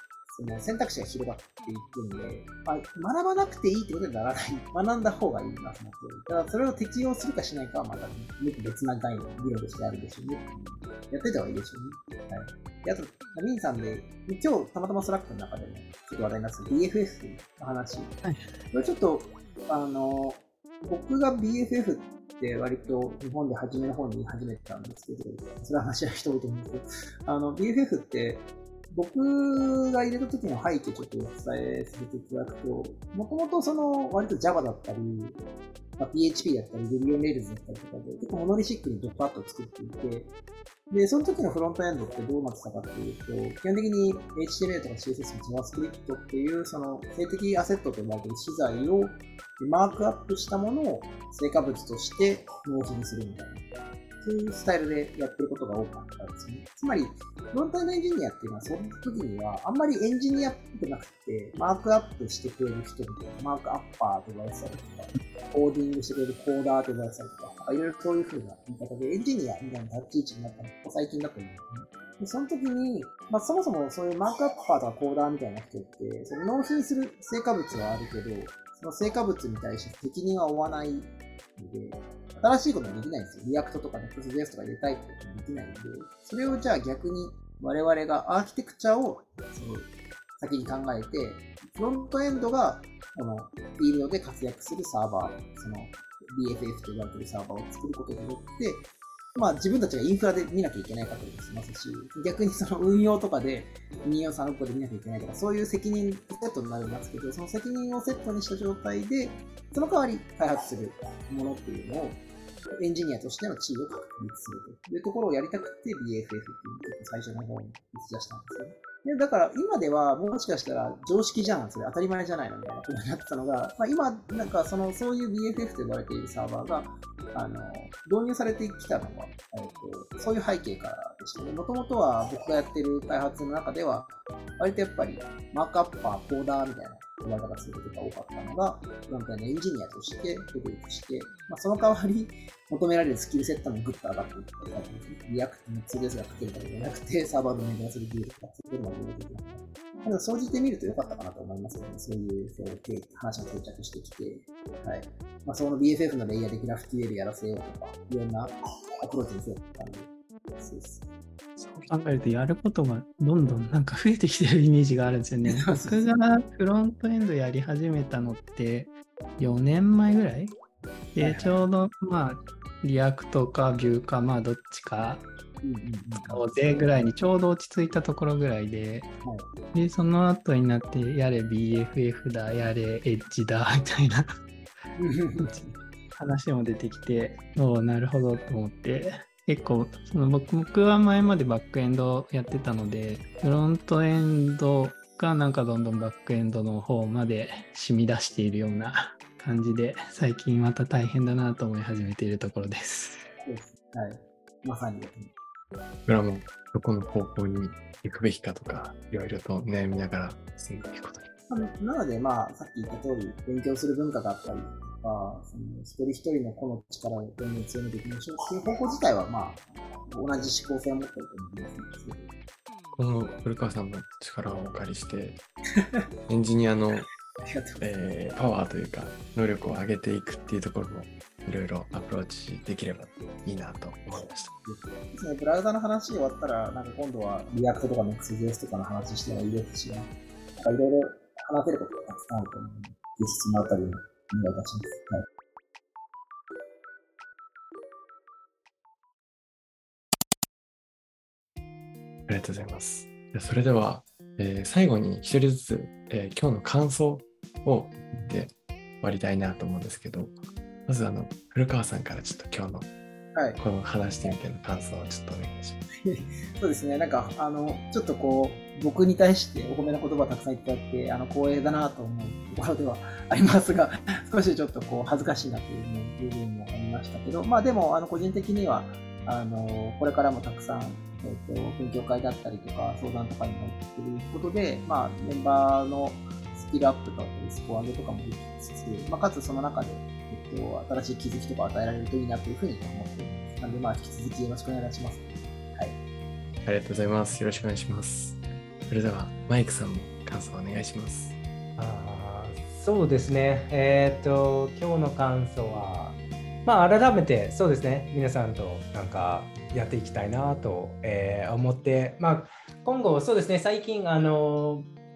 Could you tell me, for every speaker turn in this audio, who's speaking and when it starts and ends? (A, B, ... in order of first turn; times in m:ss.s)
0:00.3-0:35.4 A
0:36.0-0:40.3 A
0:40.9-0:53.7 A
0:54.2-1:52.2 A
1:52.8-2:41.1 A
2:41.6-2:50.6 B
2:45.4-2:46.1 A
2:51.1-2:55.3 B
2:51.2-2:51.7 A
2:55.6-2:57.1 A
2:56.2-2:59.1 B
2:59.2-2:59.5 A
2:59.7-3:04.3 B
3:05.0-3:05.6 A
3:05.4-3:23.3 B
3:23.4-3:25.3 A
3:26.1-3:31.3 C
3:31.5-3:42.3 A
3:42.9-3:45.4 C
3:46.3-3:47.1 C
3:47.0-3:47.9 A
3:47.8-3:54.5 C
3:54.2-4:05.3 A
4:12.3-4:22.9 C
4:23.4-4:23.6 A
4:23.6-4:25.8 C
4:26.0-4:56.0 A
4:56.6-5:01.4 C
5:01.8-5:14.9 D